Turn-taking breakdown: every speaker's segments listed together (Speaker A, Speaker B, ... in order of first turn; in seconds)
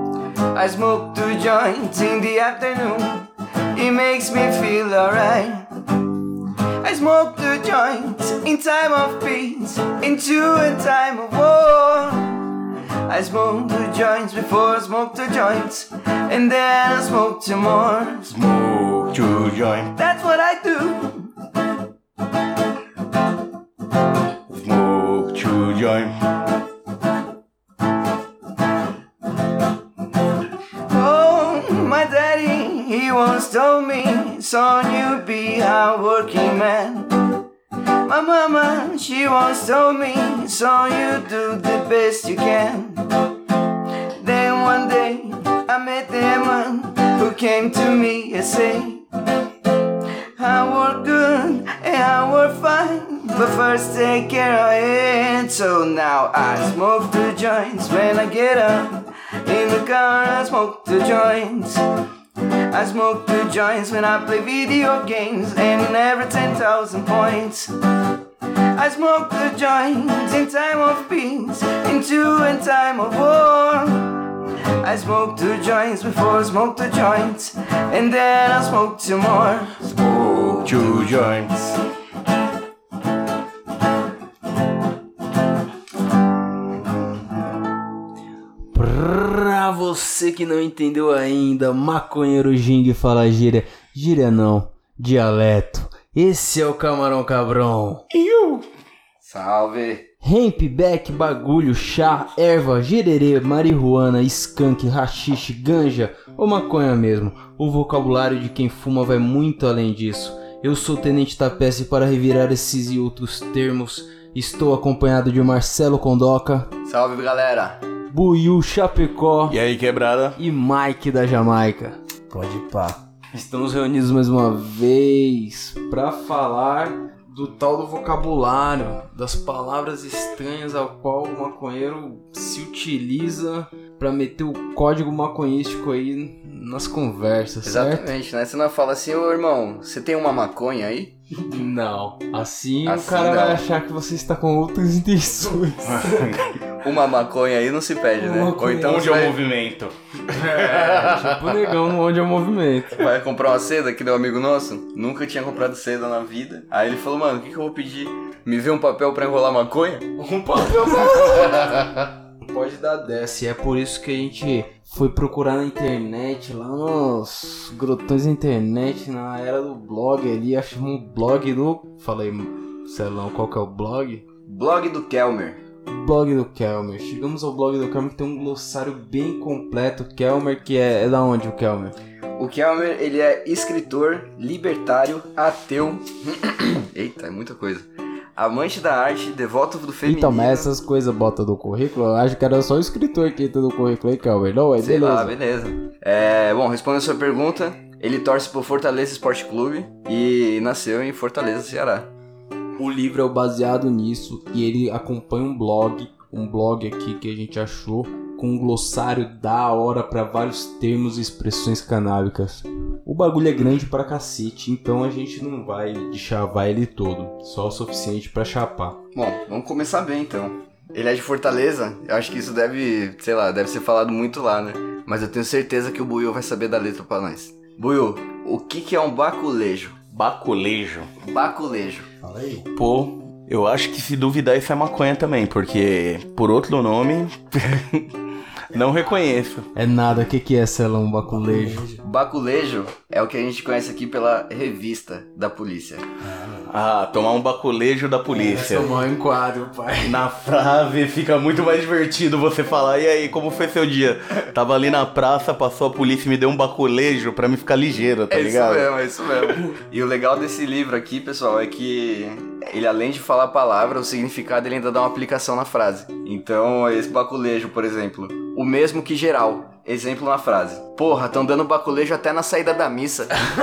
Speaker A: 0.5-5.7, 6.8-18.3, 20.0-21.3, 30.9-37.3, 38.1-43.1, 44.2-49.0, 50.4-61.8, 62.7-67.7, 68.8-79.8, 80.7-81.7, 99.2-100.1, 116.9-117.8, 137.7-141.1, 142.8-143.6, 146.8-149.4, 152.9-160.1, 174.5-175.6, 182.4-190.7, 194.8-202.1, 219.2-230.0, 231.2-232.1, 242.0-246.1, 258.3-273.4
Speaker B: 18.3-19.9, 24.5-26.1, 79.9-81.5, 98.1-98.7, 119.5-120.4, 145.8-146.6, 148.6-151.8, 230.1-231.1, 232.8-239.7, 246.7-248.9, 250.0-259.0
Speaker C: 88.7-98.0, 100.2-116.7, 118.1-119.6, 120.4-122.0, 123.3-138.1, 141.5-146.2, 150.3-153.0, 160.2-161.8, 162.4-174.2, 175.9-181.9, 190.0-195.3, 202.8-219.0, 239.8-241.8, 248.4-250.2
Speaker D: 122.3-123.0, 148.2-149.0, 232.2-232.7, 241.3-242.0, 246.2-246.7, 248.3-249.1